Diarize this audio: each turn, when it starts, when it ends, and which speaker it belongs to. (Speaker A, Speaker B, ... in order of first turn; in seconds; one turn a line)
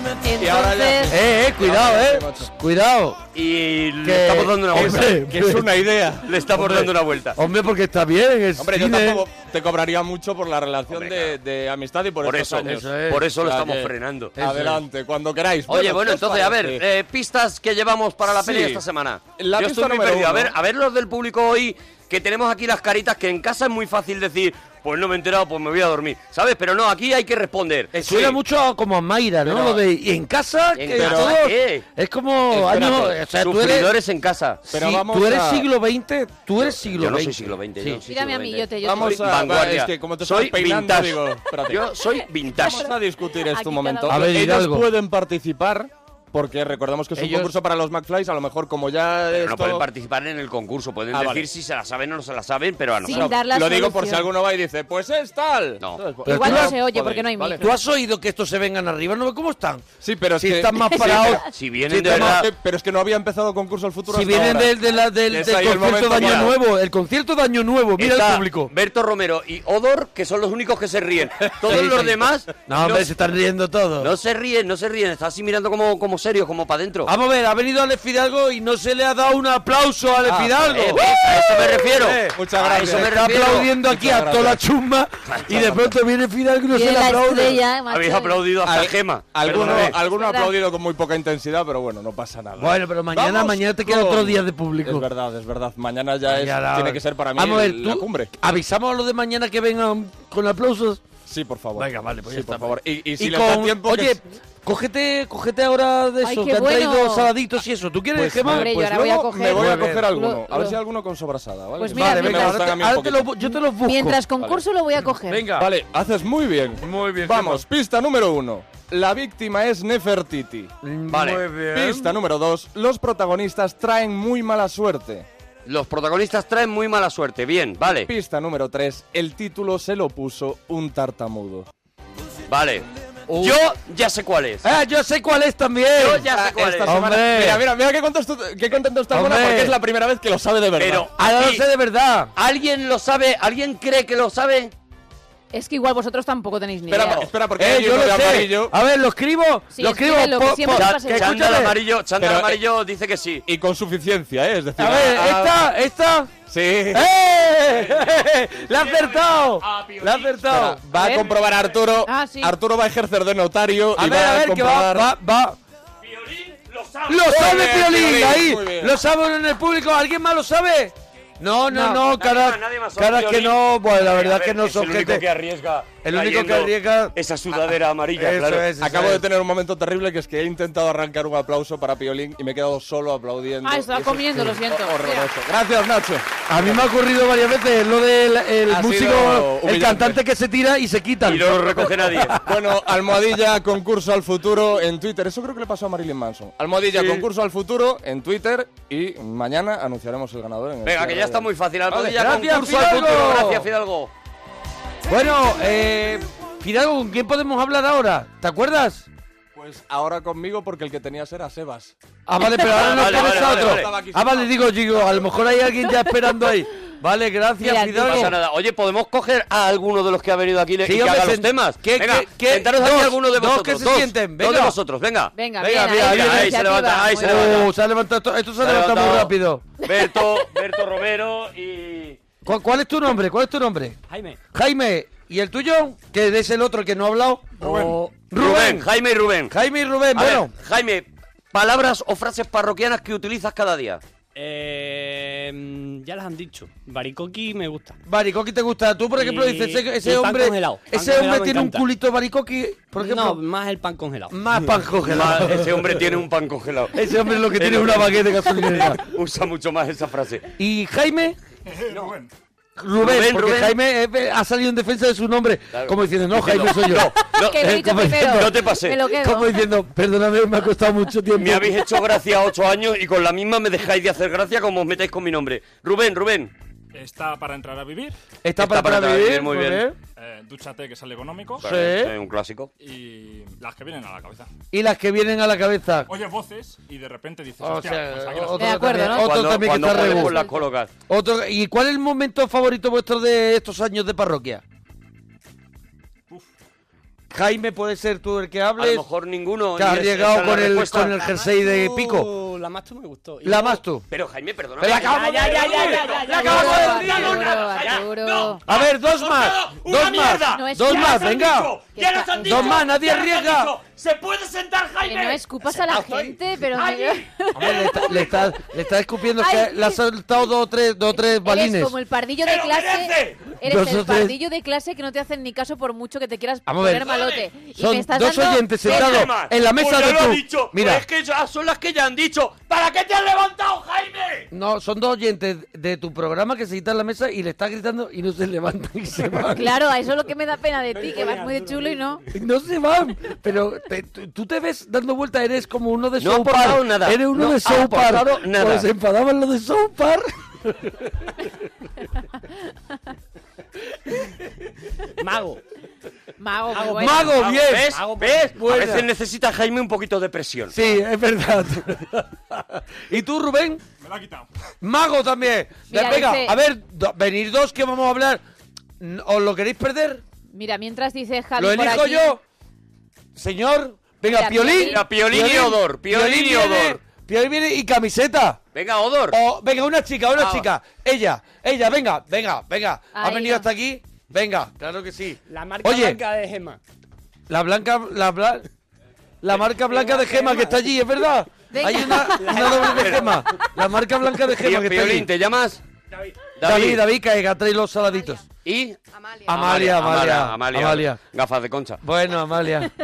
Speaker A: 0.2-1.1
Speaker B: 0.4-2.5
Speaker C: 1.1-3.2
Speaker D: 3.3-5.2
Speaker C: 4.0-5.7
Speaker B: 4.8-6.3
Speaker D: 6.2-7.4
Speaker C: 6.5-9.2
Speaker B: 8.6-16.8
Speaker D: 10.9-11.4
Speaker D: 12.2-14.4
Speaker C: 12.7-13.3
Speaker C: 14.4-14.8
Speaker D: 15.7-28.4
Speaker B: 18.3-18.8
Speaker B: 19.4-20.5
Speaker C: 27.9-33.9
Speaker D: 29.5-29.8
Speaker D: 30.8-31.9
Speaker B: 31.0-31.4
Speaker D: 32.5-34.6
Speaker C: 34.7-38.0
Speaker B: 34.7-35.7
Speaker D: 36.6-42.9
Speaker A: 38.1-39.3
Speaker B: 38.8-41.9
Speaker B: 42.5-49.9
Speaker A: 43.5-44.2
Speaker C: 44.1-44.9
Speaker C: 47.1-47.5
Speaker D: 49.3-53.4
Speaker B: 51.1-51.5
Speaker A: 53.0-54.3
Speaker B: 53.1-57.6
Speaker A: 56.2-57.7
Speaker C: 56.3-56.8
Speaker C: 57.6-59.9
Speaker B: 60.0-64.8
Speaker C: 60.4-62.5
Speaker A: 60.9-61.4
Speaker D: 61.5-62.5
Speaker C: 64.1-68.7
Speaker B: 65.3-66.5
Speaker D: 66.1-66.5
Speaker D: 68.0-73.1
Speaker C: 71.7-74.1
Speaker D: 74.0-77.1
Speaker C: 77.1-87.6
Speaker B: 80.2-81.1
Speaker D: 80.7-83.7
Speaker B: 82.3-84.6
Speaker D: 85.3-85.8
Speaker B: 85.5-85.9
Speaker A: 86.7-88.5
Speaker D: 87.9-90.0
Speaker B: 88.6-98.3
Speaker C: 89.5-89.9
Speaker A: 89.9-90.5
Speaker C: 92.6-95.1
Speaker C: 96.3-101.0
Speaker B: 101.2-104.2
Speaker C: 101.8-108.7
Speaker A: 106.2-107.3
Speaker B: 108.2-113.3
Speaker A: 108.4-110.8
Speaker C: 109.5-110.1
Speaker A: 111.8-112.6
Speaker C: 111.9-114.2
Speaker A: 113.5-115.5
Speaker C: 115.3-115.7
Speaker B: 115.5-120.7
Speaker C: 116.8-117.7
Speaker C: 120.8-122.2
Speaker D: 121.1-121.5
Speaker B: 121.6-125.3
Speaker D: 125.7-128.1
Speaker B: 128.1-131.7
Speaker D: 132.5-134.7
Speaker C: 133.3-133.6
Speaker C: 134.6-136.3
Speaker D: 136.0-136.9
Speaker B: 136.2-141.1
Speaker C: 136.9-137.6
Speaker C: 139.1-139.8
Speaker D: 140.8-141.6
Speaker C: 141.2-142.3
Speaker D: 142.4-144.7
Speaker A: 145.5-147.3
Speaker B: 146.9-148.7
Speaker C: 147.6-151.8
Speaker A: 149.7-151.3
Speaker D: 150.7-153.4
Speaker B: 152.2-152.6
Speaker B: 153.5-155.6
Speaker C: 154.8-156.3
Speaker B: 156.5-157.1
Speaker C: 156.9-160.8
Speaker D: 158.7-160.5
Speaker B: 160.5-165.1
Speaker A: 160.9-161.3
Speaker A: 162.1-162.5
Speaker C: 163.9-165.6
Speaker D: 166.0-167.6
Speaker C: 167.1-175.2
Speaker B: 167.2-169.0
Speaker D: 171.8-178.7
Speaker C: 176.0-177.1
Speaker C: 178.2-179.2
Speaker B: 178.8-186.8
Speaker A: 183.6-185.3
Speaker C: 186.5-192.5
Speaker B: 188.7-190.2
Speaker D: 191.2-192.4
Speaker B: 192.4-201.5
Speaker D: 200.8-204.1
Speaker C: 201.9-203.7
Speaker C: 205.1-209.1
Speaker B: 209.6-211.9
Speaker C: 212.3-218.4
Speaker D: 212.4-213.9
Speaker B: 212.5-214.5
Speaker A: 217.6-218.3
Speaker D: 218.0-227.7
Speaker C: 220.8-224.8
Speaker A: 225.3-227.6
Speaker C: 225.6-226.6
Speaker C: 227.2-229.7
Speaker D: 228.6-232.2
Speaker C: 232.4-234.0
Speaker E: 234.1-234.4
Speaker C: 234.5-238.9
Speaker D: 237.6-239.5
Speaker F: 237.7-238.0
Speaker C: 239.5-240.5
Speaker D: 240.2-244.0
Speaker E: 244.3-248.0
Speaker C: 248.1-253.4
Speaker E: 249.2-251.9
Speaker E: 253.0-254.5
Speaker C: 254.3-256.1
Speaker D: 255.0-257.0
Speaker C: 256.9-259.0
Speaker D: 257.5-260.4
Speaker C: 260.6-261.4
Speaker F: 261.7-262.3
Speaker D: 261.9-262.1
Speaker C: 262.8-271.9
Speaker D: 263.0-263.8
Speaker D: 265.7-269.0
Speaker A: 267.4-269.6
Speaker D: 271.4-276.5
Speaker F: 276.9-278.2
Speaker C: 278.4-280.0
Speaker D: 278.6-279.9
Speaker F: 280.2-281.8
Speaker D: 281.6-282.7
Speaker C: 281.6-282.1
Speaker F: 282.8-284.5
Speaker C: 284.7-286.1
Speaker F: 286.1-288.9
Speaker C: 287.6-290.4
Speaker A: 288.6-290.6
Speaker D: 289.1-290.9
Speaker C: 291.1-294.6
Speaker C: 297.3-299.1
Speaker D: 298.8-301.3
Speaker C: 299.8-302.3
Speaker E: 301.4-303.8
Speaker C: 303.4-304.1
Speaker D: 304.1-318.4
Speaker C: 304.8-307.4
Speaker E: 304.8-308.1
Speaker A: 306.2-308.6
Speaker C: 308.6-311.7
Speaker A: 310.4-312.9
Speaker C: 312.4-313.7
Speaker A: 315.1-318.0
Speaker C: 317.5-322.0
Speaker A: 319.4-320.0
Speaker A: 321.2-329.2
Speaker D: 322.4-323.4
Speaker C: 323.6-324.4
Speaker C: 326.7-331.1
Speaker D: 327.1-327.4
Speaker D: 328.8-334.5
Speaker C: 334.5-339.7
Speaker A: 339.5-342.2
Speaker E: 340.9-342.2
Speaker C: 342.3-351.4
Speaker D: 346.2-348.9
Speaker E: 355.2-355.6
Speaker A: 356.4-357.4
Speaker E: 356.7-358.6
Speaker C: 356.9-358.0
Speaker D: 357.4-360.8
Speaker C: 358.6-359.1
Speaker C: 360.7-363.8
Speaker F: 364.0-364.5
Speaker C: 364.8-368.4
Speaker A: 365.9-366.6
Speaker C: 369.0-370.2
Speaker A: 370.5-372.4
Speaker C: 371.6-372.4
Speaker C: 373.4-378.6
Speaker A: 374.2-375.0
Speaker D: 374.8-377.0
Speaker D: 378.7-379.4
Speaker C: 379.3-386.2
Speaker D: 380.4-380.7
Speaker A: 383.1-383.7
Speaker E: 385.5-386.8
Speaker C: 387.5-388.7
Speaker C: 389.4-395.3
Speaker E: 389.9-390.9
Speaker A: 391.7-393.0
Speaker E: 392.3-393.5
Speaker D: 392.8-393.3
Speaker D: 394.6-395.8
Speaker D: 396.6-397.0
Speaker C: 396.6-398.4
Speaker D: 398.6-402.0
Speaker C: 399.4-401.2
Speaker C: 402.0-402.9